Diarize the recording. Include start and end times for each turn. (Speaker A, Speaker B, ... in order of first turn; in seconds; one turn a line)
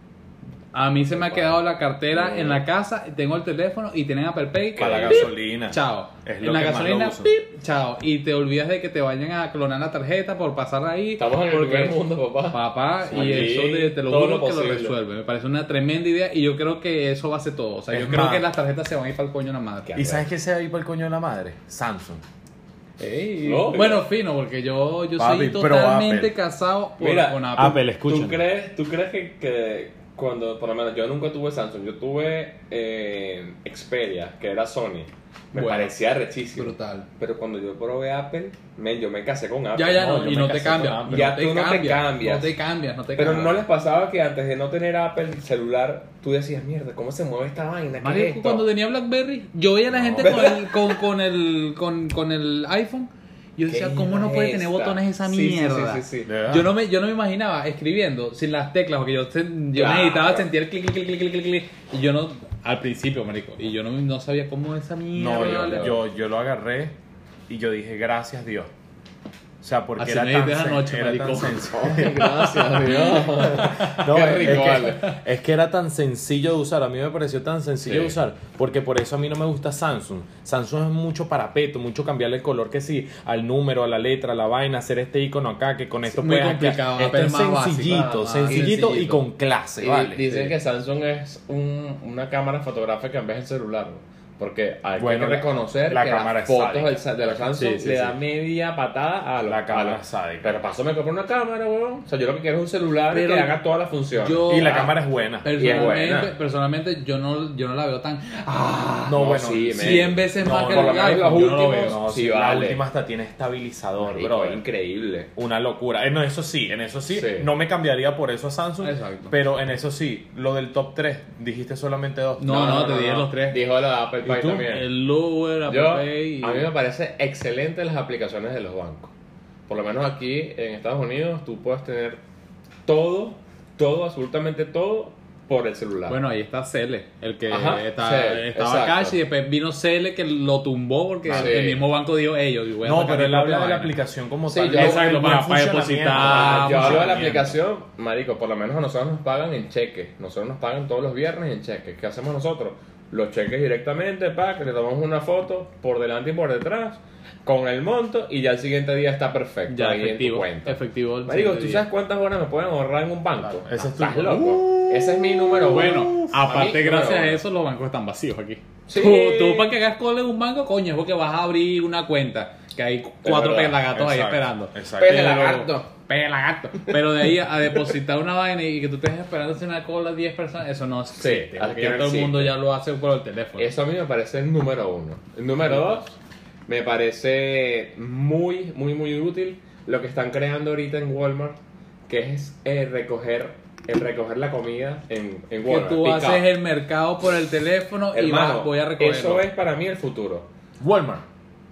Speaker A: 0.7-12.0
Speaker B: 1.1-2.6
Speaker C: 4.8-7.3
Speaker B: 11.2-15.0
Speaker A: 12.5-20.0
Speaker C: 13.1-13.5
Speaker C: 17.9-18.5
Speaker B: 19.9-20.2
Speaker C: 19.9-22.2
Speaker A: 23.0-27.8
Speaker B: 23.4-24.1
Speaker C: 25.2-26.4
Speaker B: 27.0-40.4
Speaker C: 27.6-28.4
Speaker A: 35.5-36.0
Speaker A: 36.5-37.1
Speaker A: 39.8-43.6
Speaker C: 40.0-41.3
Speaker B: 41.1-42.5
Speaker B: 43.2-48.7
Speaker A: 48.0-66.0
Speaker C: 49.9-50.5
Speaker B: 50.2-51.0
Speaker B: 53.7-56.3
Speaker C: 56.2-56.7
Speaker B: 59.7-60.5
Speaker C: 65.1-66.9
Speaker B: 65.3-66.0
Speaker C: 67.5-68.7
Speaker C: 69.6-90.2
Speaker A: 70.0-75.1
Speaker B: 71.7-75.1
Speaker B: 77.8-78.2
Speaker A: 86.1-89.2
Speaker B: 88.5-88.8
Speaker B: 89.8-104.9
Speaker A: 90.2-90.5
Speaker C: 95.0-97.0
Speaker A: 97.5-98.2
Speaker C: 99.5-100.6
Speaker A: 103.1-103.6
Speaker A: 104.2-104.9
Speaker C: 104.5-105.8
Speaker A: 105.4-112.0
Speaker B: 105.5-106.3
Speaker C: 109.1-114.6
Speaker B: 109.2-112.8
Speaker B: 114.0-115.3
Speaker C: 115.4-123.3
Speaker B: 117.1-117.5
Speaker A: 118.8-119.3
Speaker A: 122.4-123.6
Speaker B: 122.5-124.9
Speaker A: 124.3-126.7
Speaker B: 125.7-129.1
Speaker B: 129.7-132.2
Speaker B: 132.9-136.2
Speaker A: 136.1-143.9
Speaker B: 137.5-139.2
Speaker C: 141.3-141.6
Speaker B: 141.3-141.8
Speaker C: 142.8-147.5
Speaker B: 144.5-145.1
Speaker A: 144.5-147.2
Speaker B: 146.2-167.4
Speaker A: 159.7-161.8
Speaker C: 163.4-166.4
Speaker A: 165.7-183.7
Speaker B: 168.9-169.8
Speaker B: 173.2-173.9
Speaker C: 173.9-175.3
Speaker B: 175.0-175.9
Speaker B: 181.2-182.6
Speaker B: 183.6-186.1
Speaker A: 185.7-186.0
Speaker B: 186.7-191.6
Speaker B: 192.1-196.5
Speaker A: 195.6-199.4
Speaker B: 198.1-200.5
Speaker C: 200.8-201.2